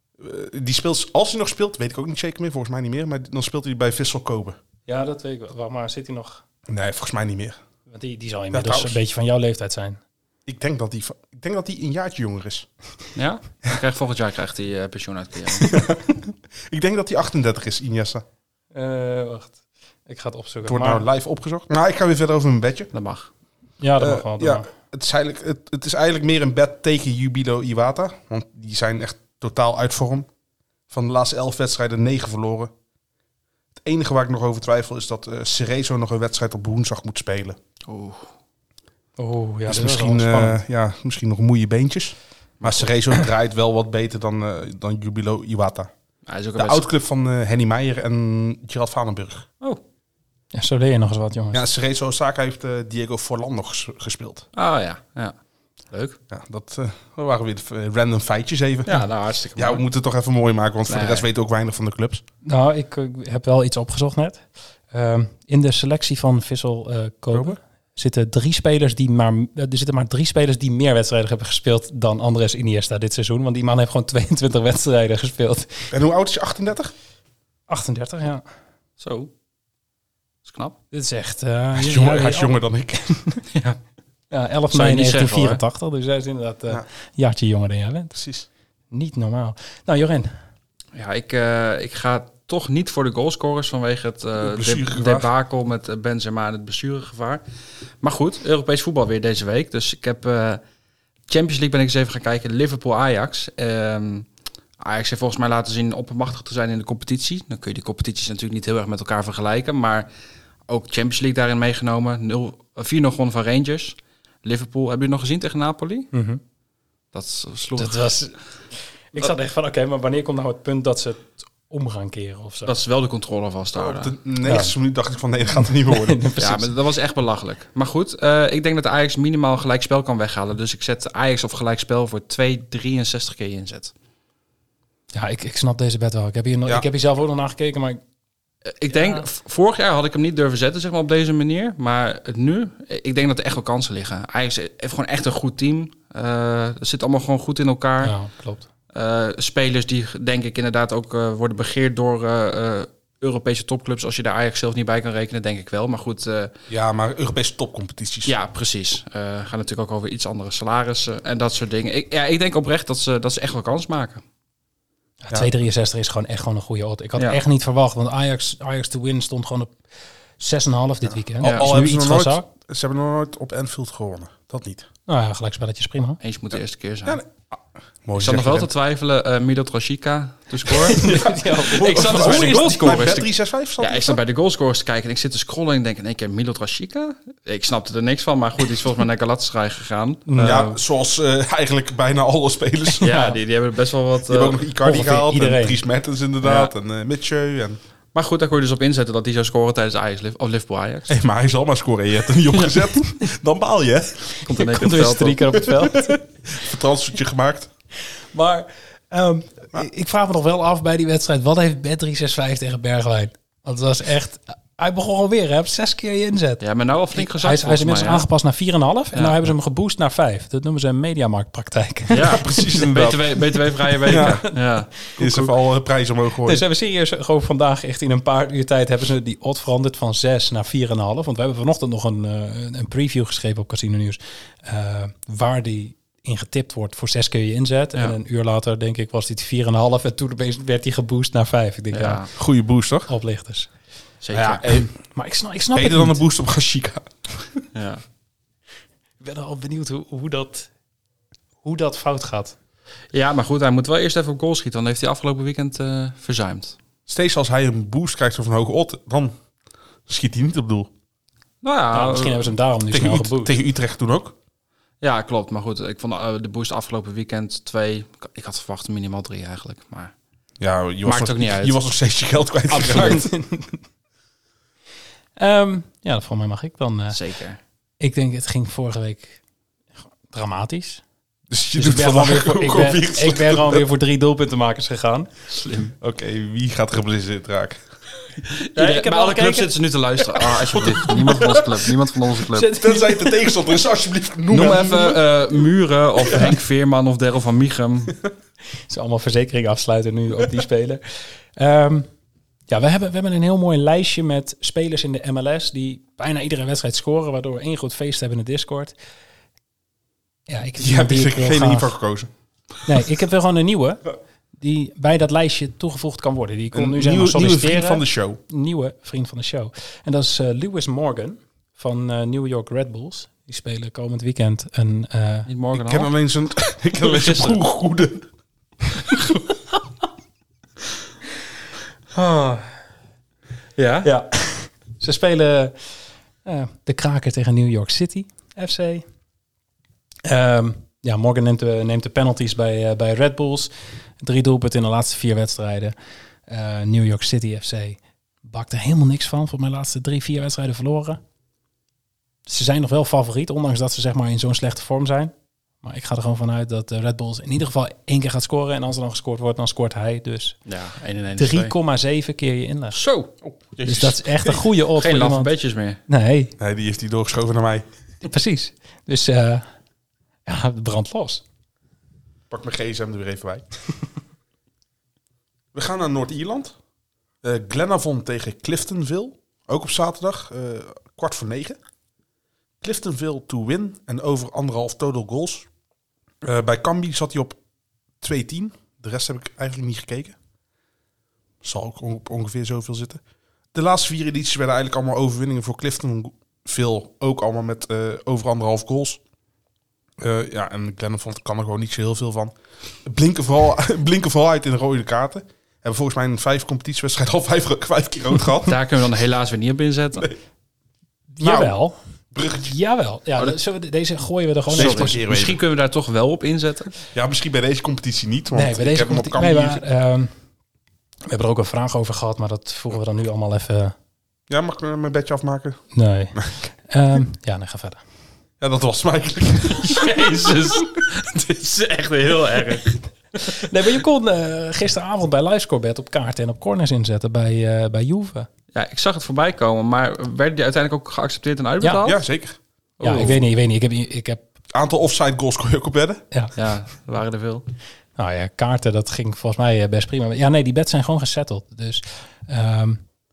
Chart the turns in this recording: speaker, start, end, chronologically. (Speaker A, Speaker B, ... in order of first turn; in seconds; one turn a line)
Speaker A: 0.2-4.6
Speaker B: 4.9-6.4
Speaker A: 6.7-7.6
Speaker B: 7.9-10.0
Speaker A: 8.5-9.0
Speaker A: 10.4-12.7
Speaker C: 13.2-15.7
Speaker A: 15.7-18.2
Speaker B: 18.7-21.0
Speaker A: 20.6-22.9
Speaker C: 22.9-23.3
Speaker B: 23.8-24.7
Speaker A: 24.0-30.3
Speaker A: 30.9-32.7
Speaker A: 33.8-37.6
Speaker C: 37.9-38.3
Speaker B: 39.2-40.6
Speaker A: 39.7-45.9
Speaker C: 42.6-42.9
Speaker C: 46.3-46.8
Speaker A: 46.5-49.5
Speaker B: 50.5-51.6
Speaker A: 51.5-54.5
Speaker C: 54.5-55.3
Speaker C: 55.9-56.2
Speaker A: 56.3-62.2
Speaker C: 58.9-59.8
Speaker C: 60.9-61.3
Speaker B: 62.4-75.9
Speaker A: 67.3-67.6
Speaker A: 75.9-76.9
Speaker B: 77.7-78.4
Speaker C: 79.0-79.3
Speaker C: 80.5-80.8
Speaker B: 80.9-82.6
Speaker A: 81.7-83.2
Speaker C: 83.5-83.8
Speaker B: 84.3-88.1
Speaker C: 84.7-85.6
Speaker A: 88.1-88.5
Speaker B: 88.9-90.3
Speaker C: 90.9-97.4
Speaker A: 94.4-95.3
Speaker C: 98.0-100.6
Speaker C: 101.3-104.3
Speaker C: 104.8-110.1
Speaker C: 110.7-116.1
Speaker B: 116.1-116.4
Speaker C: 117.1-118.2
Speaker B: 117.8-118.3
Speaker B: 119.1-122.7
Speaker C: 122.7-124.1
Speaker A: 123.8-126.2
Speaker B: 124.4-124.7
Speaker B: 125.9-126.7
Speaker C: 126.4-133.9
Speaker B: 135.1-138.0
Speaker C: 138.7-148.1
Speaker B: 138.9-139.2
Speaker B: 148.0-148.7
Speaker C: 148.9-156.5
Speaker A: 156.7-158.3
Speaker C: 158.3-164.2
Speaker B: 165.2-169.7
Speaker B: 170.4-172.4
Speaker A: 171.1-174.9
Speaker C: 171.4-171.7
Speaker B: 175.1-176.2
Speaker C: 176.2-177.2
Speaker A: 176.5-178.7
Speaker C: 178.2-181.0
Speaker A: 180.8-184.2
Speaker B: 180.9-183.0
Speaker C: 181.7-183.3
Speaker C: 183.8-190.8
Speaker B: 190.3-190.6
Speaker A: 190.3-193.1
Speaker B: 193.0-193.3
Speaker C: 193.0-194.6
Speaker A: 194.3-197.8
Speaker B: 194.8-195.8
Speaker C: 196.4-196.7
Speaker C: 198.1-201.1
Speaker A: 201.1-204.3
Speaker C: 204.4-205.5
Speaker B: 204.5-206.2
Speaker A: 205.6-207.7
Speaker B: 208.3-216.6
Speaker C: 216.6-218.2
Speaker B: 217.1-222.4
Speaker C: 219.1-219.4
Speaker C: 222.1-224.9
Speaker A: 222.2-224.4
Speaker B: 225.1-225.5
Speaker A: 225.2-226.6
Speaker B: 226.4-242.2
Speaker C: 241.9-242.3
Speaker A: 242.3-243.1
Speaker B: 243.1-243.7
Speaker C: 244.2-244.6
Speaker B: 244.3-246.2
Speaker A: 245.7-247.5
Speaker C: 247.7-248.0
Speaker B: 249.2-250.7
Speaker B: 251.6-252.6
Speaker C: 253.1-256.8
Speaker A: 257.1-259.3
Speaker A: 260.1-260.9
Speaker C: 261.6-262.5
Speaker B: 261.9-263.5
Speaker A: 262.9-264.4
Speaker C: 265.0-270.1
Speaker A: 270.6-273.3
Speaker C: 271.0-271.8
Speaker C: 272.7-273.2
Speaker B: 272.8-273.8
Speaker B: 275.4-277.2
Speaker C: 277.1-277.6
Speaker B: 278.0-279.4
Speaker B: 280.3-281.0
Speaker A: 281.5-283.8
Speaker B: 281.7-285.3
Speaker C: 285.5-285.9
Speaker A: 286.0-287.8
Speaker C: 288.5-292.7
Speaker B: 288.7-289.7
Speaker A: 290.4-291.9
Speaker B: 292.5-293.5
Speaker A: 292.7-295.2
Speaker C: 294.5-298.1
Speaker B: 298.9-302.1
Speaker B: 302.7-308.9
Speaker B: 310.5-312.0
Speaker A: 310.8-312.3
Speaker B: 312.9-314.0
Speaker B: 314.6-325.5
Speaker A: 316.7-318.4
Speaker C: 325.5-326.1
Speaker A: 325.7-328.3
Speaker C: 327.0-327.6
Speaker C: 332.1-332.7
Speaker C: 333.8-334.1
Speaker B: 334.0-335.8
Speaker B: 336.4-339.0
Speaker B: 340.2-345.9
Speaker B: 346.5-351.2
Speaker B: 352.5-360.6
Speaker C: 360.7-361.7
Speaker B: 361.3-363.0
Speaker C: 362.9-363.3
Speaker A: 363.4-364.6
Speaker B: 363.8-365.5
Speaker C: 365.0-366.0
Speaker B: 366.1-366.5
Speaker A: 366.6-367.8
Speaker B: 368.2-369.6
Speaker B: 370.4-371.4
Speaker A: 372.5-373.6
Speaker A: 375.7-376.7
Speaker A: 377.4-381.8
Speaker A: 382.8-385.7
Speaker A: 386.4-387.6
Speaker A: 388.2-390.3
Speaker A: 391.6-393.2
Speaker A: 393.7-399.2
Speaker A: 400.2-408.8
Speaker C: 408.6-410.3
Speaker B: 411.3-411.9
Speaker A: 411.4-411.7
Speaker A: 412.3-412.7
Speaker B: 412.6-415.2
Speaker A: 414.7-415.6
Speaker C: 414.7-416.9
Speaker A: 417.1-419.8
Speaker B: 418.5-420.3
Speaker B: 421.3-423.9
Speaker A: 424.5-425.8
Speaker B: 425.9-428.0
Speaker A: 428.6-429.9
Speaker C: 429.8-432.9
Speaker B: 433.5-438.5
Speaker C: 438.7-442.2
Speaker B: 441.8-442.1
Speaker A: 442.0-442.6
Speaker C: 443.0-443.4
Speaker B: 443.0-444.4
Speaker A: 444.7-446.2
Speaker C: 446.5-447.6
Speaker B: 448.2-453.0